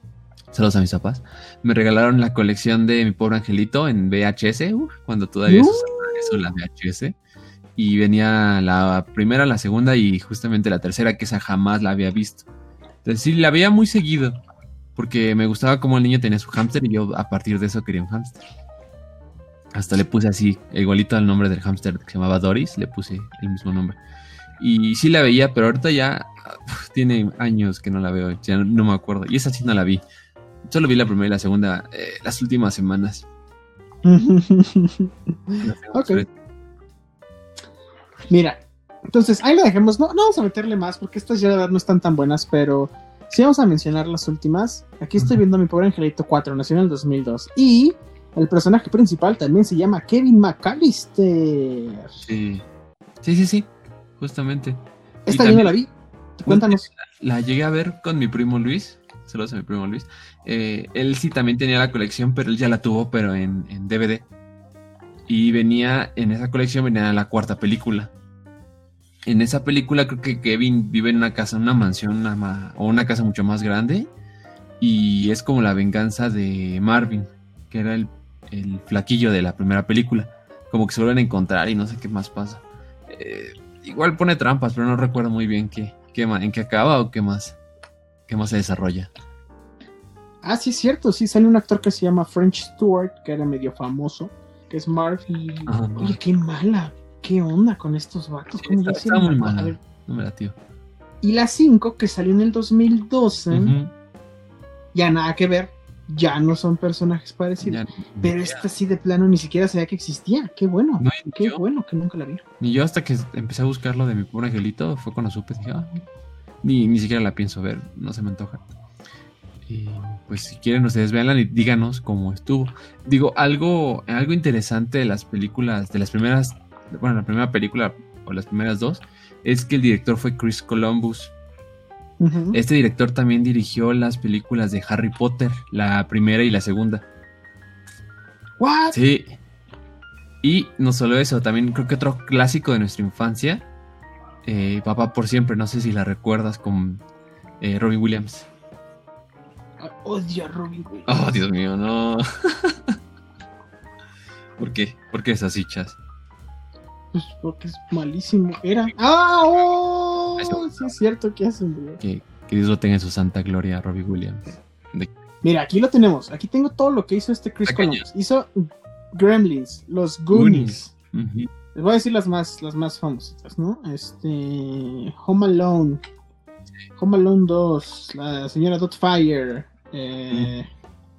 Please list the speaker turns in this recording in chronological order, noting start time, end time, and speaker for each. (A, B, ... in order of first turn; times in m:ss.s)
0:00.5-0:07.2 A
0:05.5-0:06.4 B
0:07.8-0:12.4 A
0:13.0-0:14.4 A
0:15.0-0:18.4 A
0:19.7-0:24.0 A
0:24.6-0:30.0 A
0:30.6-0:33.3 A
0:34.0-0:36.2 B
0:35.6-0:36.3 A
0:38.3-0:52.2 B
0:52.2-0:52.6 A
0:53.2-0:55.8 A
0:55.3-0:56.8 B
0:56.5-1:04.2 A
1:05.3-1:08.1 A
1:09.2-1:14.1 A
1:14.8-1:27.6 A
1:28.3-1:29.1 A
1:30.4-1:39.8 B
1:35.7-1:36.2 A
1:38.6-1:40.6 A
1:41.2-1:43.8 B
1:43.5-1:43.9 A
1:44.9-1:52.4 B
1:47.6-1:48.6 A
1:51.0-1:51.6 A
1:52.6-1:56.1 A
1:56.6-1:58.6 A
1:59.7-2:11.3 A
2:12.2-2:12.6 B
2:12.5-2:17.0 A
2:18.6-2:19.0 B
2:18.9-2:19.4 A
2:20.4-2:23.7 A
2:24.4-2:27.0 A
2:27.6-2:28.5 A
2:29.8-2:31.4 B
2:31.1-2:33.0 A
2:34.6-2:36.0 A
2:37.1-2:42.0 B
2:40.4-2:40.7 A
2:42.0-2:45.1 A
2:45.4-2:50.9 B
2:47.7-2:48.0 A
2:50.3-2:51.5 A
2:51.8-2:56.0 B
2:57.0-3:00.7 B